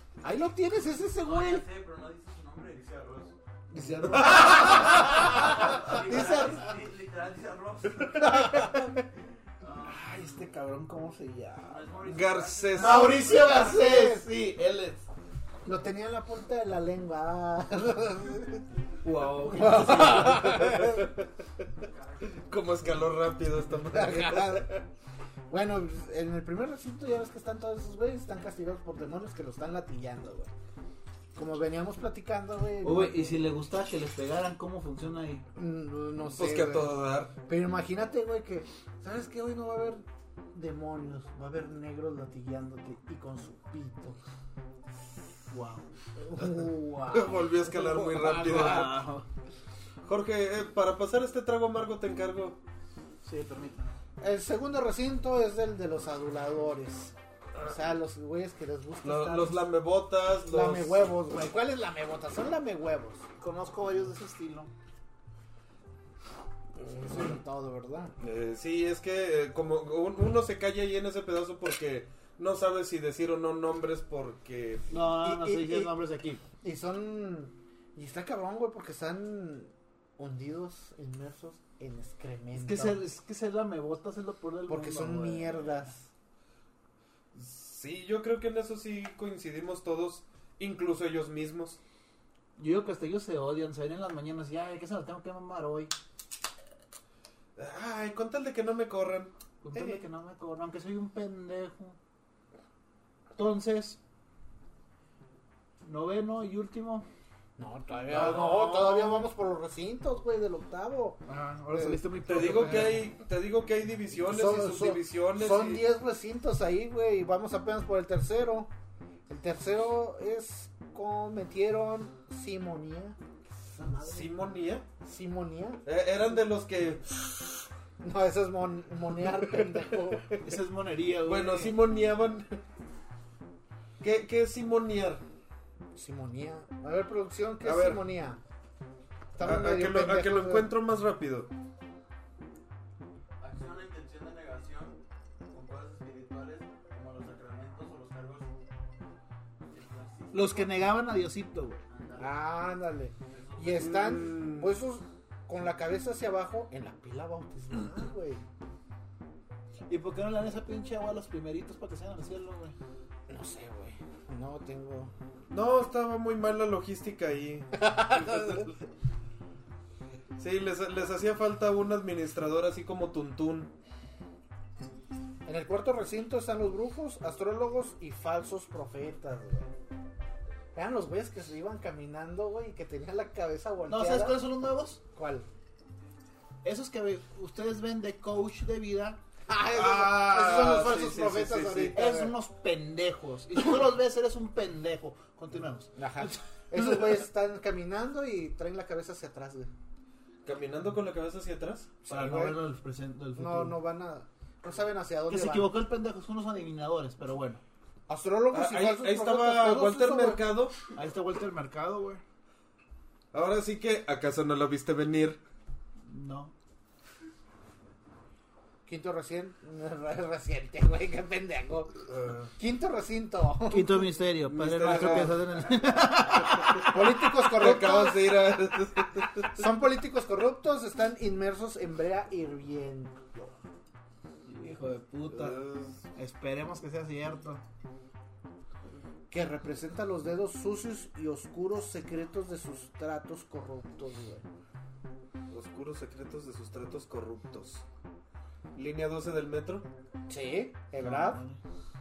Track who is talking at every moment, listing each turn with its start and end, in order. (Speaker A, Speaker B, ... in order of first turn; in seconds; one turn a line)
Speaker A: 0.2-1.6
Speaker B: 1.2-3.3
Speaker C: 3.7-4.9
Speaker D: 4.2-4.8
Speaker A: 4.2-6.7
Speaker B: 4.5-8.6
Speaker A: 8.2-8.9
Speaker B: 9.6-10.4
Speaker C: 9.8-11.9
Speaker B: 11.6-13.6
Speaker D: 12.1-13.2
Speaker C: 12.8-15.1
Speaker A: 12.8-14.3
Speaker A: 15.7-18.6
Speaker C: 19.0-20.6
Speaker A: 19.4-21.1
Speaker D: 20.1-21.1
Speaker B: 21.8-23.0
Speaker D: 22.4-24.8
Speaker A: 23.8-24.8
Speaker A: 25.5-30.5
Speaker A: 31.4-33.5
Speaker C: 32.8-35.5
Speaker A: 35.6-44.2
Speaker D: 36.4-37.3
Speaker C: 45.5-45.9
Speaker A: 46.2-49.0
Speaker D: 46.4-49.0
Speaker C: 48.2-49.3
Speaker D: 50.0-52.6
Speaker C: 53.2-54.0
Speaker A: 54.2-59.6
Speaker D: 59.0-61.1
Speaker A: 60.5-63.3
Speaker C: 63.4-64.7
Speaker A: 66.8-68.1
Speaker D: 68.2-74.9
Speaker C: 74.9-76.5
Speaker A: 75.2-75.9
Speaker A: 76.6-83.0
Speaker C: 82.5-85.8
Speaker A: 84.7-86.1
Speaker D: 87.3-91.8
Speaker C: 92.6-95.9
Speaker D: 97.6-100.0
Speaker C: 99.6-102.0
Speaker C: 103.3-104.0
Speaker C: 105.8-107.1
Speaker A: 107.6-112.0
Speaker D: 108.1-109.3
Speaker C: 111.3-113.1
Speaker D: 112.3-115.8
Speaker A: 114.3-118.7
Speaker A: 119.3-124.3
Speaker D: 124.0-124.9
Speaker A: 125.0-125.8
Speaker D: 125.8-127.4
Speaker A: 128.0-130.3
Speaker C: 130.4-131.8
Speaker D: 131.2-132.6
Speaker D: 134.0-135.2
Speaker A: 135.9-138.4
Speaker D: 137.6-138.0
Speaker A: 139.3-140.7
Speaker D: 139.4-141.5
Speaker B: 143.4-145.0
Speaker B: 145.5-148.5
Speaker B: 149.7-150.9
Speaker C: 150.3-151.8
Speaker B: 151.9-152.5
Speaker A: 152.2-158.4
Speaker B: 153.3-154.0
Speaker D: 153.7-154.7
Speaker C: 159.9-162.8
Speaker A: 163.3-165.1
Speaker D: 165.5-168.7
Speaker A: 167.8-168.7
Speaker D: 170.4-173.7
Speaker A: 175.4-179.7
Speaker A: 180.7-184.5
Speaker C: 183.9-185.0
Speaker A: 185.2-185.5
Speaker C: 186.6-189.2
Speaker A: 189.5-192.3
Speaker D: 189.7-192.0
Speaker C: 191.9-197.2
Speaker A: 196.0-199.7
Speaker D: 200.4-202.0
Speaker A: 202.1-202.6
Speaker C: 202.1-203.8
Speaker A: 203.4-205.7
Speaker C: 205.3-207.6
Speaker A: 208.1-210.4
Speaker D: 208.5-210.8
Speaker C: 210.9-212.2
Speaker D: 213.3-215.4
Speaker C: 216.1-216.5
Speaker A: 218.9-221.9
Speaker D: 222.1-222.5
Speaker A: 222.6-224.1
Speaker C: 223.7-227.0
Speaker D: 224.5-225.5
Speaker A: 224.9-225.3
Speaker A: 226.8-228.5
Speaker D: 227.4-229.5
Speaker A: 229.5-233.6
Speaker C: 234.5-235.6
Speaker D: 235.3-236.0
Speaker C: 236.2-237.6
Speaker A: 239.3-244.5
Speaker D: 245.5-247.8
Speaker D: 248.8-249.9
Speaker A: 250.3-251.4
Speaker C: 251.0-251.6